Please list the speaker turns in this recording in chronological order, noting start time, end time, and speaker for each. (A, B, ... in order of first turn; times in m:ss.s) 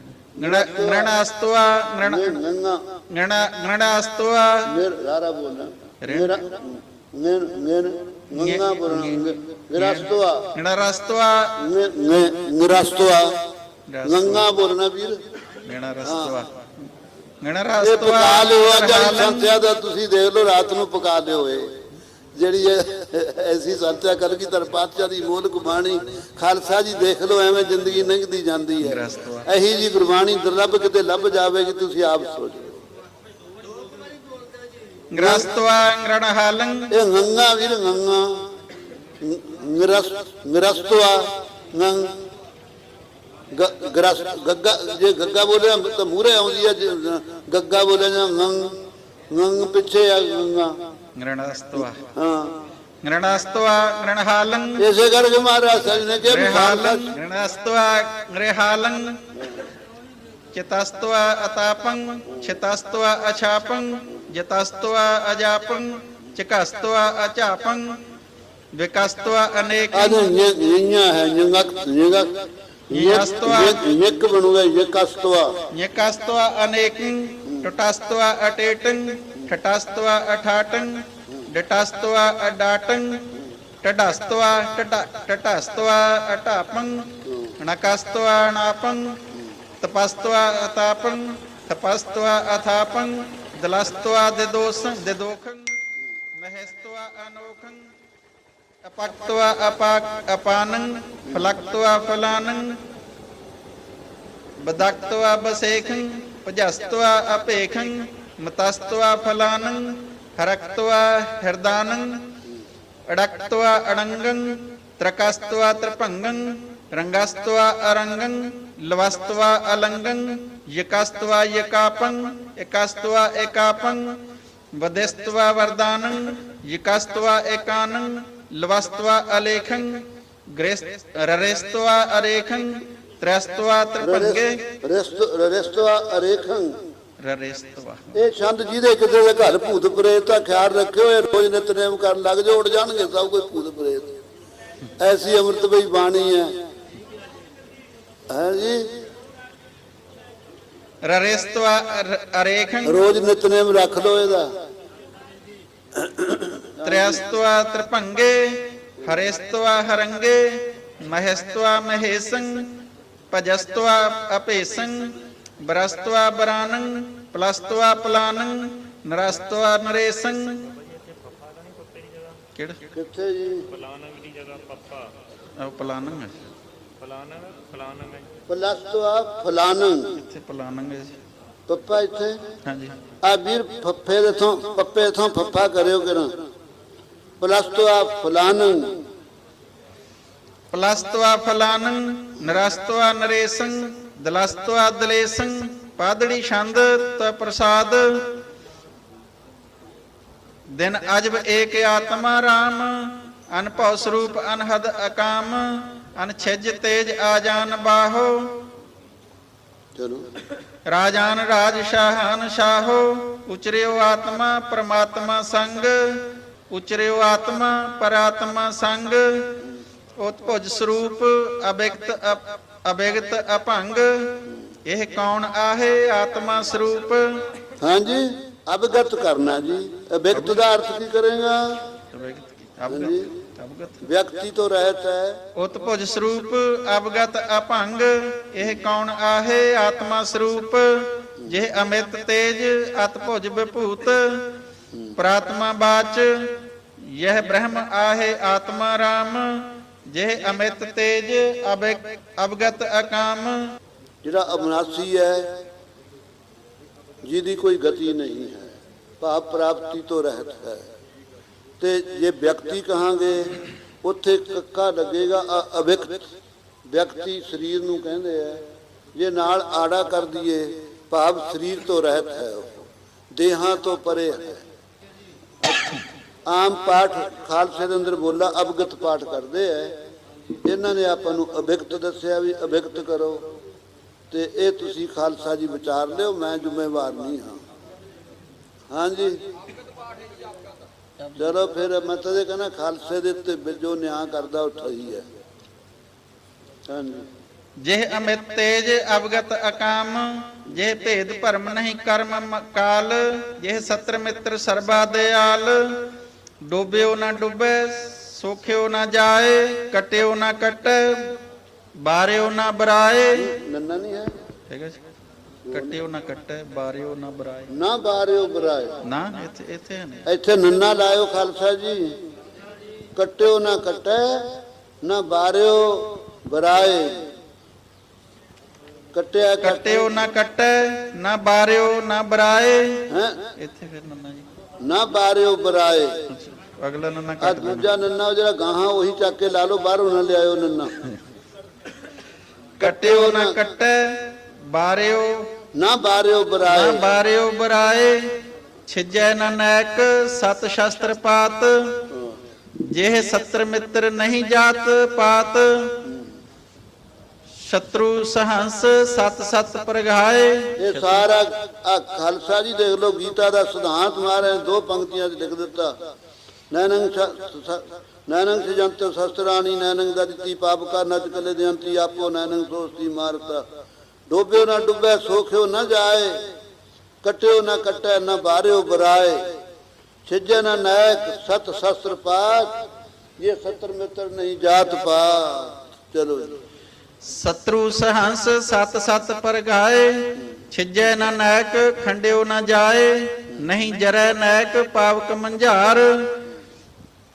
0:00.2-0:02.4 A
0:00.4-0:01.2 B
0:02.0-0:02.8 B
0:03.1-0:04.7 A
0:04.7-0:10.5 B
0:06.0-0:06.5 A
0:08.4-0:11.6 A
0:11.6-0:13.3 B
0:13.9-0:14.5 A
0:14.0-0:15.2 B
0:15.6-0:16.7 A
0:16.0-0:16.4 B
0:17.4-0:19.6 A
0:17.8-0:21.7 B
0:22.4-0:32.8 B
0:28.8-0:29.5 A
0:35.1-0:36.9 A
0:35.2-0:35.5 B
0:36.9-0:38.5 B
0:39.2-0:42.2 B
0:43.5-0:48.7 B
0:49.3-0:50.7 B
0:51.2-0:52.1 A
0:51.8-0:52.5 B
0:53.0-0:54.8 A
0:54.8-0:57.2 B
0:56.2-0:59.3 A
1:00.5-1:08.0 A
1:08.8-1:10.3 A
1:09.9-1:15.5 B
1:12.9-1:13.8 A
1:15.7-1:23.3 A
1:23.8-1:29.2 A
1:27.2-1:27.6 B
1:29.8-1:35.8 A
1:36.4-1:37.9 A
1:38.8-1:42.8 A
1:41.3-1:41.5 B
1:44.6-1:52.3 A
1:53.1-2:04.2 A
2:04.7-2:14.8 A
2:14.0-2:16.8 B
2:17.2-2:18.1 A
2:18.1-2:24.2 B
2:25.0-2:26.5 B
2:28.3-2:28.9 B
2:31.0-2:33.0 A
2:32.8-2:34.5 B
2:36.0-2:37.2 B
2:36.8-2:50.8 A
2:50.8-2:52.4 C
2:52.5-2:52.8 A
2:52.9-2:53.7 B
2:53.7-2:55.2 C
2:55.6-2:56.5 A
2:57.0-2:58.3 C
2:58.5-3:00.2 B
3:00.1-3:01.2 A
3:01.7-3:02.4 B
3:02.6-3:03.0 A
3:03.2-3:06.3 B
3:07.4-3:09.0 B
3:10.7-3:18.4 A
3:20.7-3:28.7 A
3:30.0-3:30.3 B
3:30.9-3:39.7 A
3:40.2-3:47.5 A
3:47.8-3:51.9 B
3:52.1-3:54.1 A
3:52.9-3:53.3 B
3:54.0-3:55.4 B
3:55.6-4:04.6 A
4:05.2-4:13.8 A
4:14.2-4:15.6 B
4:17.2-4:20.9 B
4:21.8-4:26.2 B
4:26.9-4:34.6 B
4:35.6-4:40.0 B
4:40.6-4:43.4 B
4:44.3-4:47.6 B
4:48.9-4:49.4 B
4:51.4-4:55.2 B
4:56.9-4:57.3 B
4:57.8-5:11.4 A
5:12.0-5:13.5 A
5:13.4-5:14.4 B
5:14.7-5:15.0 A
5:15.7-5:16.0 B
5:15.7-5:17.7 A
5:17.7-5:19.0 B
5:19.0-5:20.3 A
5:20.3-5:22.2 B
5:23.2-5:27.3 B
5:29.1-5:30.2 B
5:29.6-5:34.5 A
5:33.1-5:33.5 B
5:34.8-5:36.2 B
5:36.3-5:37.9 A
5:37.4-5:41.0 B
5:42.8-5:45.6 A
5:42.8-5:43.6 B
5:45.7-5:47.1 B
5:46.7-5:52.0 A
5:52.1-5:52.4 B
5:52.8-5:56.1 A
5:56.0-5:56.4 B
5:57.6-6:01.3 A
6:00.8-6:06.0 B
6:06.7-6:13.7 B
6:14.3-6:16.4 B
6:17.2-6:19.5 B
6:20.2-6:22.8 B
6:23.4-6:26.6 B
6:27.2-6:36.4 A